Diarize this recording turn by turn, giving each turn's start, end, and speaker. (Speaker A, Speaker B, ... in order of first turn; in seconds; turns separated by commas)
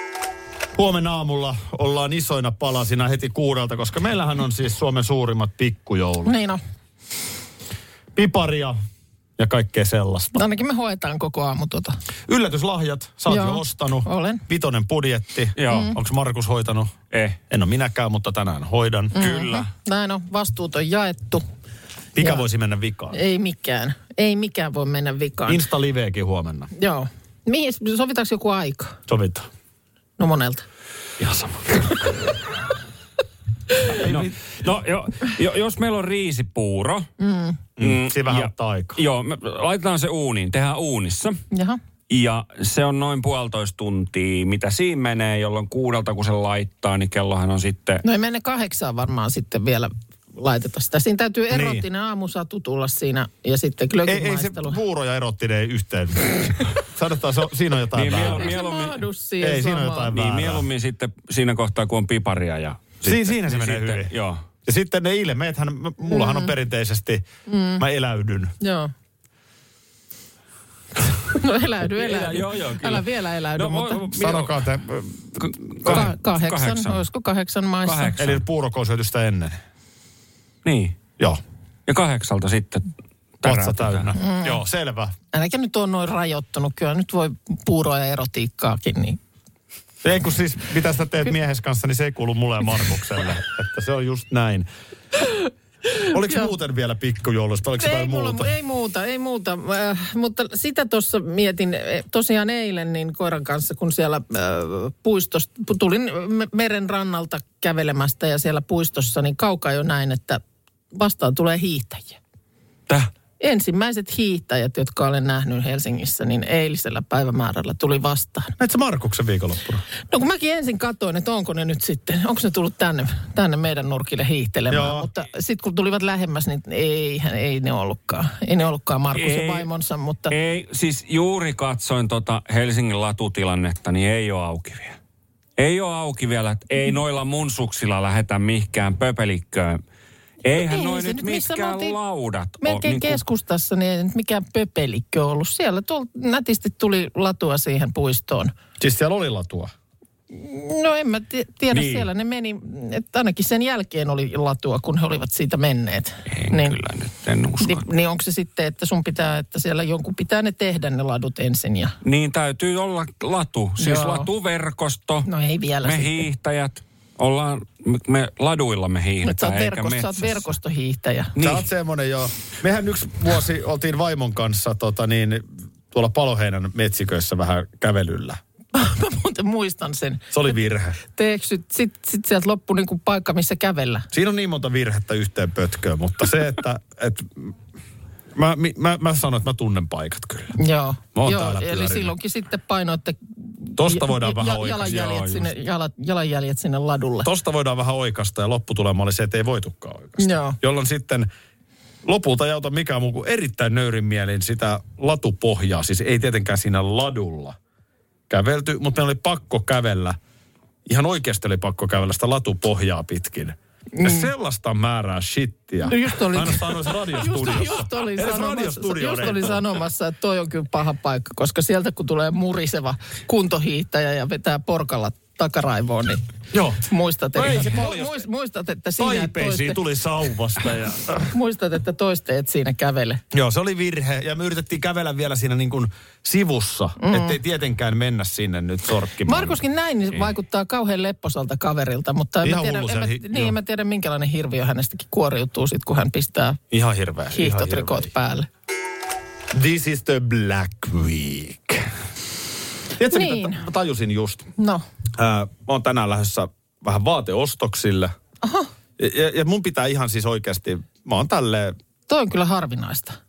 Speaker A: 0.7-6.3, Speaker B: 6.2-6.6, Speaker A: 8.1-8.8, Speaker A: 9.4-10.4, Speaker B: 10.3-12.0, Speaker A: 12.3-16.9, Speaker B: 13.3-14.4, Speaker C: 15.6-15.9, Speaker B: 15.7-16.0, Speaker C: 17.1-17.4, Speaker A: 17.5-19.6, Speaker B: 19.1-21.4, Speaker A: 22.1-23.2, Speaker B: 23.1-25.6, Speaker A: 25.5-26.7, Speaker B: 26.8-29.0, Speaker A: 29.1-29.5, Speaker B: 30.2-30.6, Speaker A: 31.2-31.9, Speaker C: 33.9-37.1, Speaker A: 34.0-34.3, Speaker B: 37.2-37.6, Speaker A: 37.8-39.0, Speaker C: 37.8-41.4, Speaker B: 41.5-41.8, Speaker C: 42.1-48.0, Speaker B: 48.0-54.8, Speaker A: 51.5-51.8, Speaker A: 54.1-58.5, Speaker C: 57.9-59.0, Speaker B: 58.2-60.1, Speaker A: 59.4-60.6, Speaker C: 60.1-64.4, Speaker A: 63.0-67.2, Speaker B: 66.1-66.5, Speaker B: 67.5-67.8, Speaker A: 67.8-68.5, Speaker B: 68.6-68.9, Speaker B: 71.4-74.1, Speaker C: 71.8-74.6, Speaker A: 74.1-76.1, Speaker C: 75.4-77.0, Speaker B: 75.9-78.1, Speaker C: 77.8-78.4, Speaker A: 78.2-79.6, Speaker C: 80.6-81.0, Speaker C: 81.9-82.9, Speaker C: 83.4-84.1, Speaker A: 83.4-85.1, Speaker B: 84.2-84.6, Speaker B: 85.3-89.2, Speaker A: 90.0-94.7, Speaker B: 96.0-96.5, Speaker A: 96.0-98.5, Speaker B: 97.8-110.4, Speaker B: 110.9-112.2, Speaker B: 113.4-118.5, Speaker A: 118.6-119.8, Speaker B: 120.1-130.3, Speaker A: 124.7-125.1, Speaker C: 129.1-129.7, Speaker C: 130.3-135.0, Speaker C: 135.6-139.8, Speaker C: 140.4-143.2, Speaker B: 140.6-142.0, Speaker B: 142.6-148.5, Speaker A: 148.8-149.7, Speaker B: 150.3-156.8, Speaker C: 151.7-152.1, Speaker C: 156.3-157.9, Speaker B: 157.6-162.0, Speaker C: 162.0-165.3, Speaker B: 163.8-164.3, Speaker B: 165.2-166.1, Speaker C: 165.8-170.5, Speaker B: 169.2-171.3, Speaker C: 171.4-171.6, Speaker A: 171.4-178.4, Speaker B: 178.7-180.3, Speaker A: 180.3-181.0, Speaker B: 181.1-184.1, Speaker A: 184.1-187.5, Speaker A: 188.3-190.6, Speaker B: 190.6-197.3, Speaker A: 191.1-192.1, Speaker A: 193.8-195.4, Speaker A: 197.2-201.3, Speaker B: 200.2-200.6, Speaker A: 202.0-207.6, Speaker A: 208.3-210.2, Speaker A: 210.9-219.7, Speaker B: 214.0-214.3, Speaker B: 215.8-226.3, Speaker A: 226.5-228.2, Speaker B: 226.8-229.8, Speaker A: 229.0-231.3, Speaker B: 231.3-233.2, Speaker A: 233.3-239.6, Speaker B: 237.0-237.4, Speaker B: 239.2-246.6, Speaker A: 242.4-243.6, Speaker A: 246.7-248.1, Speaker B: 247.3-248.5, Speaker A: 249.5-251.9, Speaker A: 253.0-254.5, Speaker B: 253.0-253.6, Speaker B: 254.6-254.8, Speaker A: 255.2-258.1, Speaker B: 258.4-258.7, Speaker A: 259.0-261.8, Speaker B: 262.1-263.2